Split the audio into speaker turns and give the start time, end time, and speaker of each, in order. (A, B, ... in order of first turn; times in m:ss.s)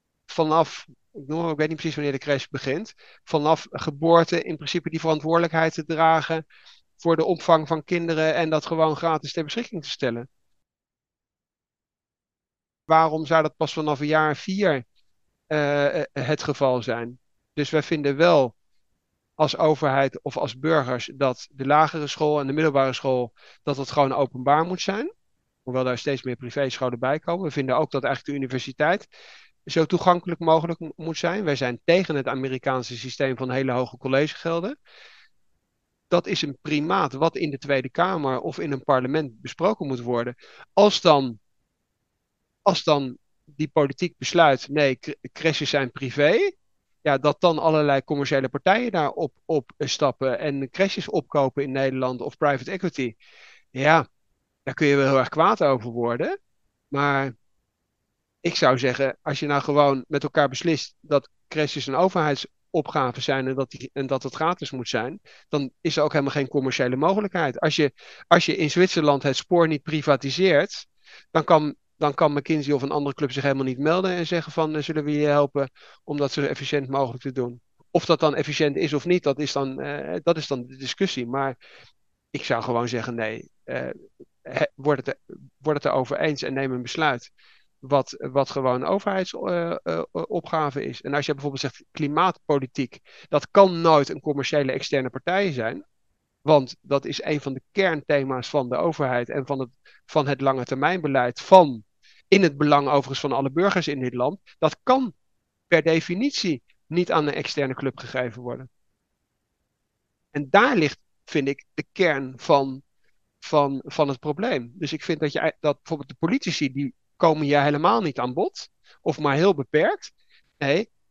0:00.3-0:06.4 A
0:07.0-0:10.3 A
0:12.9-0:14.8 A
0:15.5-0:18.5 A
0:19.4-0:25.1 A
0:25.6-0:29.0 A
0:29.7-0:34.7 A
0:36.1-0:41.4 A
0:42.6-0:53.1 A
0:53.7-0:54.0 A
0:54.6-0:56.3 A
0:56.9-0:57.3 A
0:58.4-1:21.5 A
1:22.3-1:27.3 A
1:27.8-1:35.8 A
1:36.4-1:45.1 A
1:45.7-1:48.7 A
1:50.3-1:52.8 A
1:53.4-2:00.9 A